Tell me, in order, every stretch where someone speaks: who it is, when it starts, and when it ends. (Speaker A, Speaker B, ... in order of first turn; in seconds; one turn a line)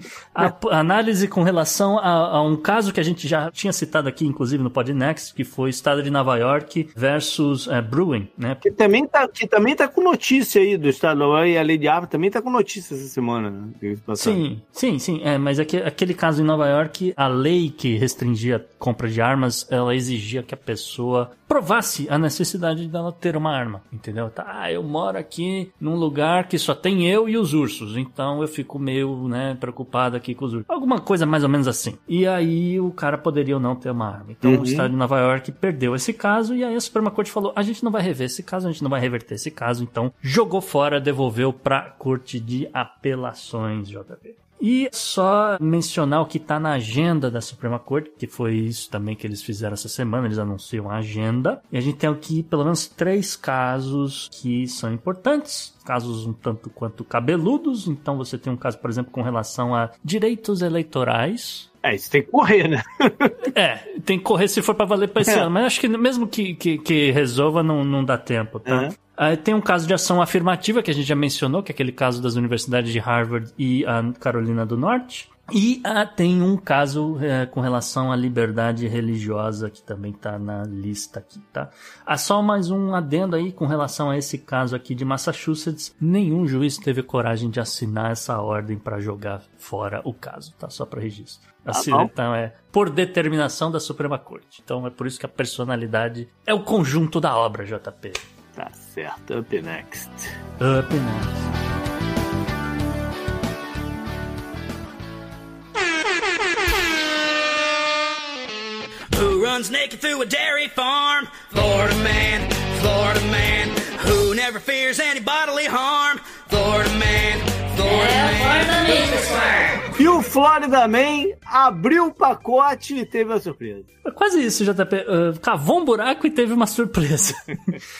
Speaker A: 0.3-8.7
Speaker B: 8.6-14.4
Speaker A: 14.2-61.7
Speaker B: 34.4-34.9
Speaker B: 61.8-63.3
Speaker A: 63.5-98.2
Speaker B: 68.7-68.9
Speaker B: 91.7-92.1
Speaker B: 98.5-100.3
Speaker A: 100.6-101.3
Speaker C: 109.1-119.8
Speaker B: 120.0-123.9
Speaker A: 124.0-127.8